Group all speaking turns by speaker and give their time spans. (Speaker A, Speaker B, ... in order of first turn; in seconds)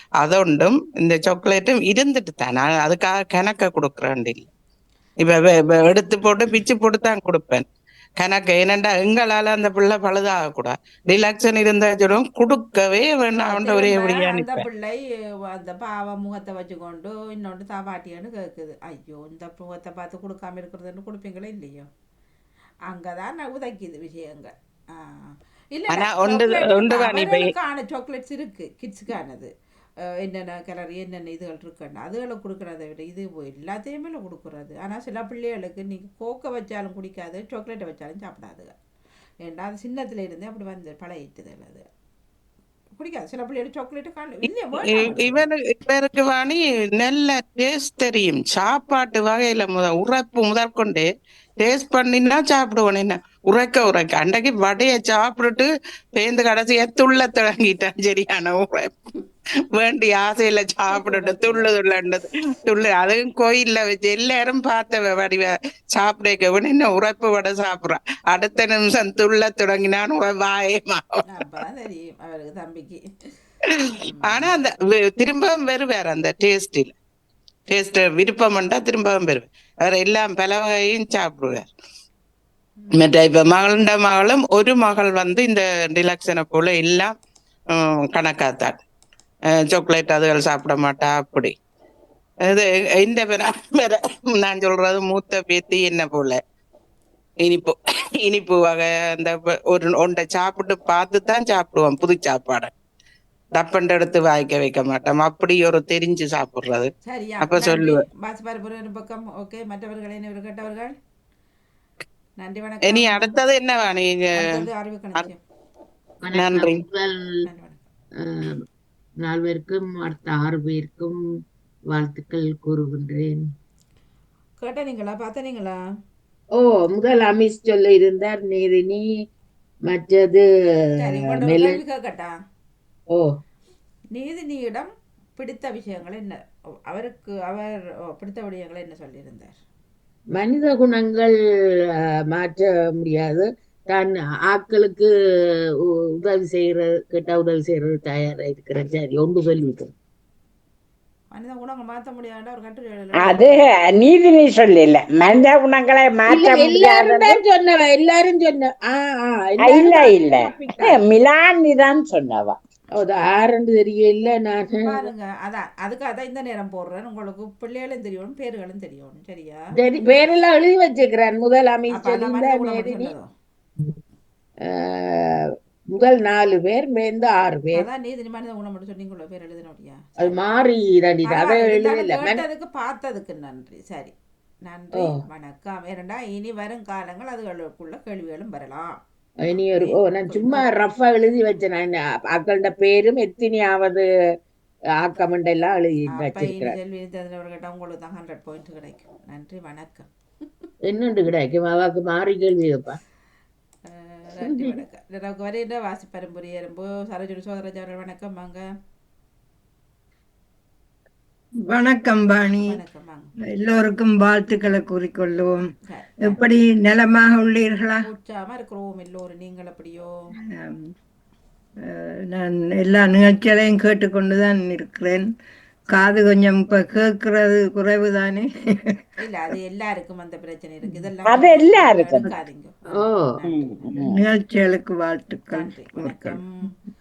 Speaker A: 0.2-4.5, 5.2-7.6, 8.2-14.7, 25.9-27.5, 44.8-51.1, 51.6-59.0, 59.7-71.2, 73.7-76.9, 77.7-81.7, 82.9-87.1, 87.7-88.8, 89.7-91.5, 92.5-96.4, 97.4-102.7, 103.5-108.0, 112.8-114.4, 116.3-116.8
Speaker B: 13.4-15.0, 15.5-21.9, 22.9-29.5, 30.2-38.7, 39.5-41.8, 43.0-45.4, 60.9-61.7, 71.3-73.0, 74.2-74.5, 107.0-111.0, 112.4-113.3, 114.4-115.4, 117.4-117.9, 124.6-125.8, 131.0-132.4, 134.1-136.4, 136.9-139.6, 151.3-153.6, 164.7-169.6, 171.9-173.3, 177.7-180.3, 181.3-184.1, 184.6-188.9, 189.8-190.7, 196.1-200.1, 203.9-208.6, 212.6-213.3, 215.9-216.5, 218.0-220.1, 229.2-234.0, 235.5-236.7
Speaker C: 116.2-117.2, 118.2-118.6, 119.2-121.2, 121.9-123.4, 126.6-129.0, 129.9-130.4, 131.1-131.8, 140.3-141.3, 142.3-145.1, 145.9-149.9, 156.3-161.0, 163.0-165.0, 169.8-173.1, 174.7-175.3, 175.9-177.8, 180.2-182.4, 189.4-194.1, 195.0-196.7, 200.9-203.0, 204.4-204.7, 233.0-233.2
Speaker D: 153.2-157.4, 159.6-162.5, 231.2-232.3, 233.5-234.2
Speaker E: 211.7-212.8, 213.4-215.6, 216.2-218.1, 220.5-220.8, 221.9-225.2, 225.9-228.4, 234.0-236.4